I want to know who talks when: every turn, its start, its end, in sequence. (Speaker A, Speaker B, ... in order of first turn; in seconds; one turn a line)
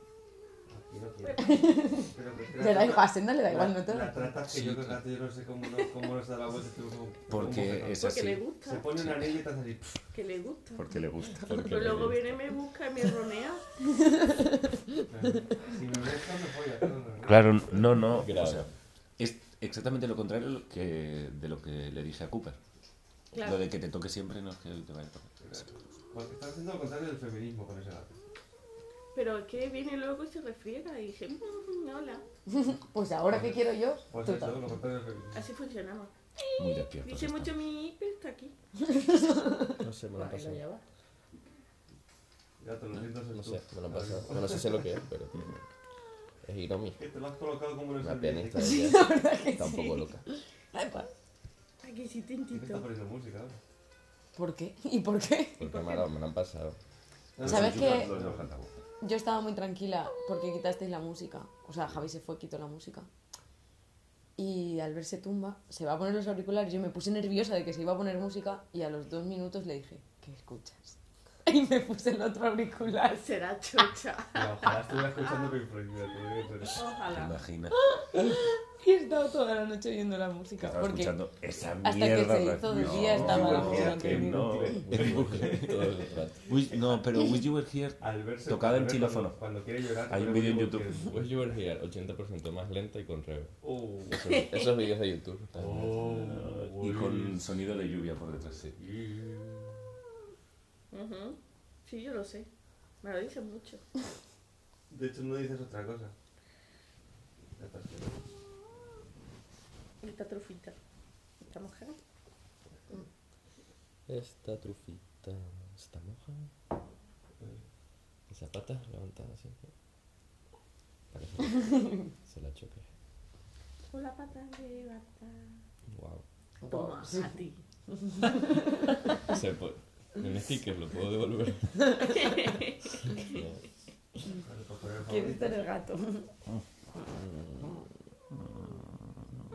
Speaker A: 0.7-10.0
Speaker B: 1.2-1.6
Speaker C: 1.4-4.2
Speaker D: 4.5-5.0
Speaker D: 7.3-8.4
Speaker B: 8.0-9.0
Speaker D: 9.0-9.4
Speaker B: 10.1-10.9
Speaker D: 10.8-11.7
Speaker E: 11.4-12.3
Speaker B: 11.6-13.6
Speaker C: 14.2-14.8
Speaker A: 15.1-18.1
Speaker D: 17.2-22.6
Speaker E: 18.1-18.7
Speaker B: 23.3-23.7
Speaker D: 23.4-25.3
Speaker A: 25.4-28.2
Speaker B: 29.1-32.2
Speaker C: 32.5-34.6
Speaker A: 33.3-35.5
Speaker B: 35.3-38.5
Speaker D: 36.6-37.5
Speaker C: 38.9-39.8
Speaker E: 39.8-40.6
Speaker B: 40.1-40.8
Speaker A: 42.6-45.0
Speaker E: 43.3-45.6
Speaker E: 46.4-47.0
Speaker A: 47.0-48.8
Speaker E: 48.0-50.2
Speaker C: 48.6-50.1
Speaker C: 50.7-51.1
Speaker B: 51.8-52.9
Speaker A: 52.5-53.6
Speaker C: 54.4-55.6
Speaker E: 55.6-56.8
Speaker A: 57.4-58.5
Speaker D: 57.4-58.7
Speaker C: 57.4-58.1
Speaker C: 59.0-63.1
Speaker C: 64.4-73.3
Speaker B: 73.1-75.5
Speaker A: 74.3-76.9
Speaker B: 76.7-77.4
Speaker D: 77.1-77.8
Speaker C: 77.9-81.2
Speaker D: 80.6-85.8
Speaker C: 81.8-84.7
Speaker A: 82.7-86.0
Speaker E: 83.1-83.9
Speaker E: 84.8-86.5
Speaker D: 86.5-89.4
Speaker A: 86.7-87.0
Speaker A: 88.0-91.5
Speaker D: 90.1-91.0
Speaker E: 91.1-93.6
Speaker A: 93.6-94.2
Speaker E: 94.1-96.2
Speaker A: 95.6-98.1
Speaker D: 95.9-98.7
Speaker A: 98.8-99.8
Speaker B: 100.9-102.5
Speaker B: 103.0-103.8
Speaker A: 104.9-106.1
Speaker A: 107.6-108.2
Speaker B: 110.0-110.8
Speaker B: 111.4-112.0
Speaker E: 114.1-116.5
Speaker E: 118.3-119.7
Speaker E: 121.1-122.9
Speaker B: 123.9-125.5
Speaker E: 125.9-126.2
Speaker C: 126.6-127.3
Speaker B: 126.7-127.6
Speaker C: 128.2-129.0
Speaker E: 129.3-131.9
Speaker B: 131.9-133.0
Speaker E: 133.1-133.6
Speaker A: 134.4-135.6
Speaker C: 135.1-136.3
Speaker E: 137.2-137.6